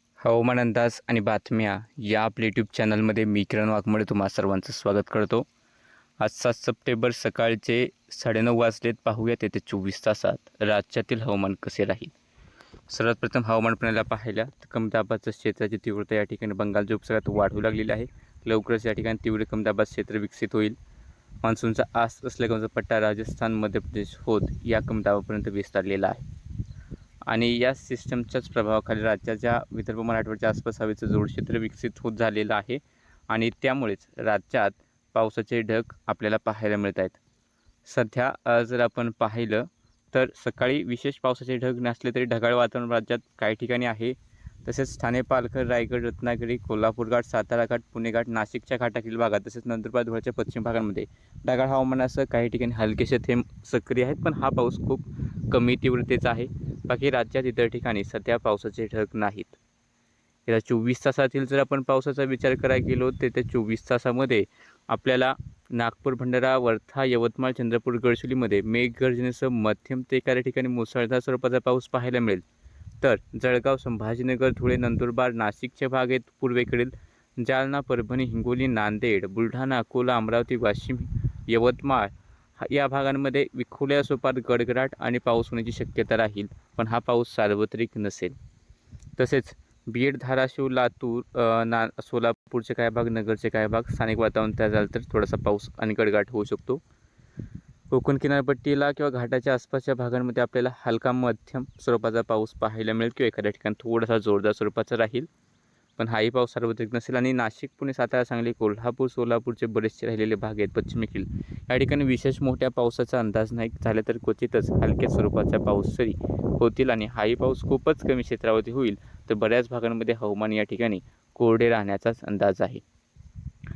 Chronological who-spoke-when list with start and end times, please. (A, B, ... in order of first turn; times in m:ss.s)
0:00.2-0:05.5 A
0:06.2-0:12.1 A
0:12.9-0:20.8 A
0:21.4-0:26.2 A
0:27.3-0:37.2 A
0:37.8-0:59.6 A
1:00.5-1:12.4 A
1:13.0-1:28.3 A
1:29.2-1:36.8 A
1:37.9-1:45.3 A
1:46.0-2:02.8 A